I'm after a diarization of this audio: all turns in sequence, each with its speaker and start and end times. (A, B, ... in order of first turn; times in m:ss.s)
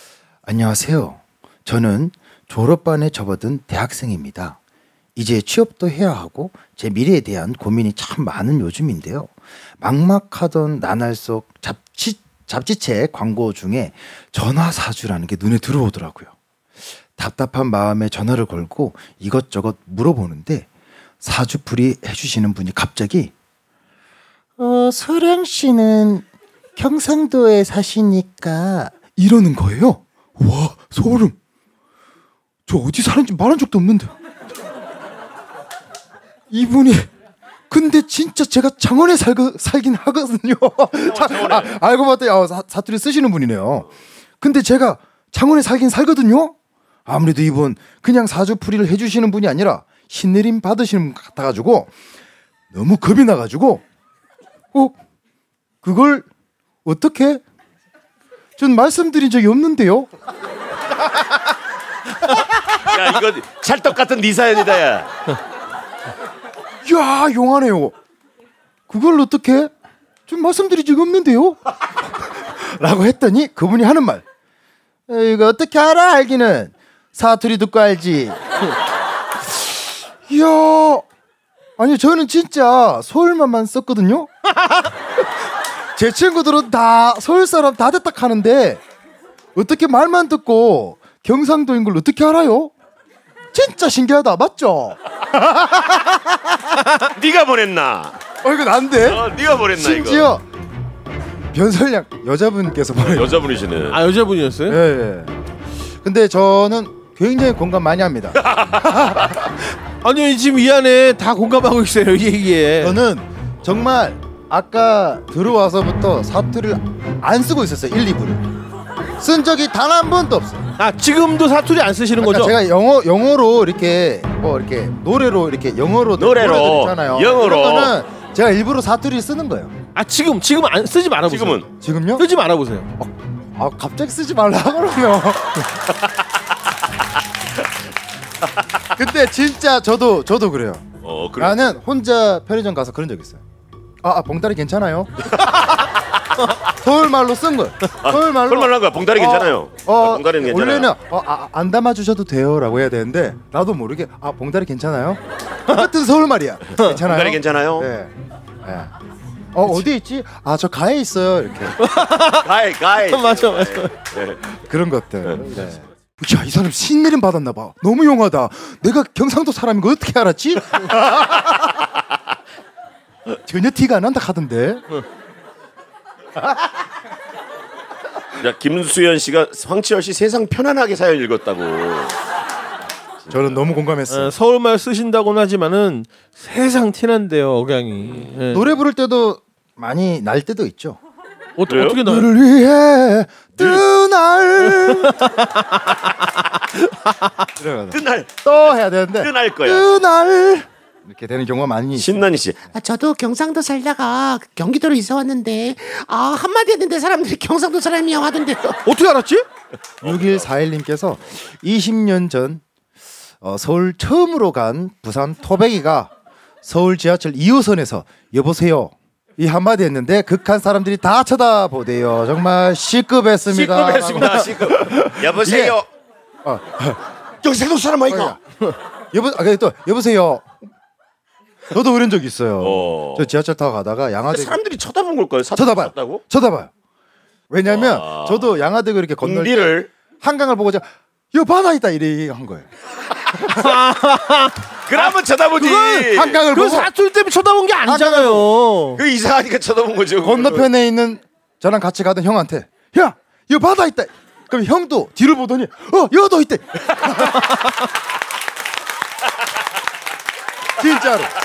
0:00.4-0:04.6 A
0:05.2-0:16.3 A
0:17.2-0:20.7 A
0:21.2-0:23.3 A
0:24.6-0:26.2 A
0:26.8-0:31.3 A
0:32.7-0:34.1 A
0:36.5-0:37.1 A
0:37.7-0:43.9 A
0:40.9-0:41.8 B
0:44.4-0:46.5 A
0:47.0-0:51.9 A
0:52.7-0:53.8 A
0:55.8-0:56.2 A
0:56.8-0:57.4 A
0:58.6-1:00.1 A
1:02.8-1:05.1 B
1:06.8-1:07.9 A
1:08.9-1:09.7 A
1:10.3-1:11.6 A
1:12.2-1:14.2 A
1:15.1-1:18.4 A
1:20.2-1:21.0 A
1:21.8-1:24.9 A
1:26.0-1:28.8 A
1:29.5-1:32.7 A
1:33.5-1:36.6 A
1:37.0-1:38.2 B
1:38.4-1:40.4 A
1:39.0-1:40.3 B
1:41.5-1:43.6 A
1:43.0-1:44.0 B
1:43.9-1:44.8 C
1:44.6-1:45.3 A
1:46.0-1:49.6 A
1:48.4-1:49.0 B
1:50.0-1:53.0 C
1:52.8-1:58.4 A
1:59.2-2:00.7 A
2:00.8-2:02.5 C
2:02.2-2:09.7 A
2:06.2-2:07.9 B
2:10.0-2:12.9 C
2:11.3-2:11.6 B
2:11.8-2:12.2 A
2:13.0-2:15.7 A
2:18.9-2:20.9 A
2:21.0-2:21.7 B
2:21.4-2:23.4 A
2:24.0-2:25.7 A
2:26.7-2:38.1 A
2:28.0-2:30.9 B
2:36.9-2:37.9 B
2:38.6-2:38.9 A
2:39.5-2:41.8 A
2:41.8-2:42.4 C
2:42.3-2:44.4 B
2:43.0-2:43.9 C
2:44.5-2:51.7 A
2:45.2-2:45.5 B
2:53.4-2:54.8 A
2:58.4-3:02.2 B
3:03.3-3:04.3 A
3:04.1-3:08.7 C
3:08.5-3:11.0 A
3:11.6-3:12.3 C
3:11.6-3:12.0 B
3:12.0-3:15.3 A
3:14.8-3:15.7 C
3:17.6-3:22.3 A
3:17.9-3:18.4 B
3:19.2-3:19.8 B
3:21.9-3:22.7 B
3:22.7-3:28.8 D
3:28.8-3:29.4 C
3:30.0-3:32.6 A
3:30.0-3:30.5 B
3:33.4-3:36.1 A
3:36.6-3:45.8 A
3:43.5-3:45.9 B
3:46.4-3:47.0 A
3:47.4-3:48.4 B
3:48.1-3:48.4 A
3:49.1-3:50.5 A
3:51.7-3:54.6 A
3:52.6-3:53.3 B
3:54.3-3:56.2 B
3:55.5-3:56.7 A
3:57.5-4:02.7 A
3:57.6-3:58.5 B
3:59.2-3:59.9 B
4:03.3-4:03.7 A
4:03.4-4:04.7 C
4:04.9-4:06.4 B
4:05.6-4:09.0 C
4:06.0-4:06.9 A
4:07.8-4:08.5 A
4:09.0-4:10.7 B
4:10.2-4:17.5 A
4:20.8-4:21.3 A